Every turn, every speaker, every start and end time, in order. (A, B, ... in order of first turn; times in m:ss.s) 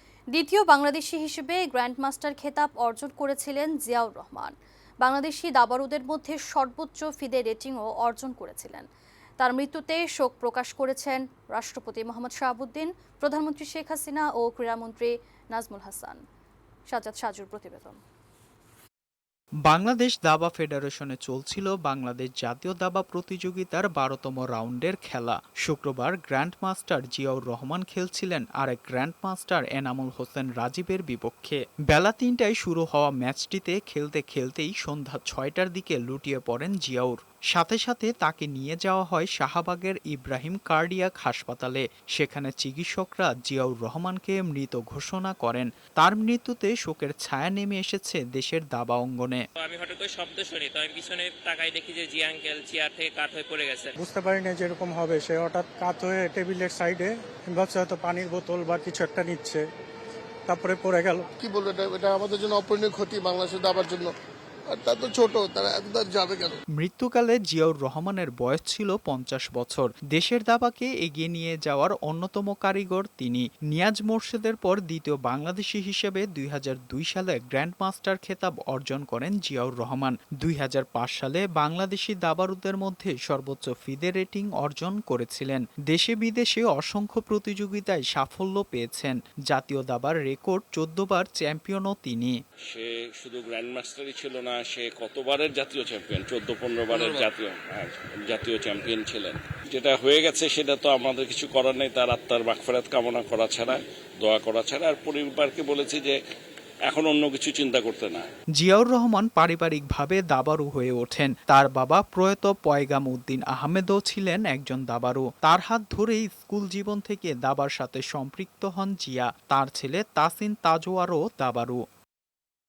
0:00.3-0:08.8 A
0:09.4-0:16.2 A
0:16.9-0:18.0 A
0:19.7-0:49.4 B
0:49.6-0:54.0 C
0:54.0-0:59.6 D
1:00.5-1:01.3 D
1:01.4-1:04.1 E
1:04.7-1:06.6 E
1:06.8-1:32.3 B
1:32.7-1:46.1 F
1:46.9-1:48.3 F
1:48.6-2:01.8 B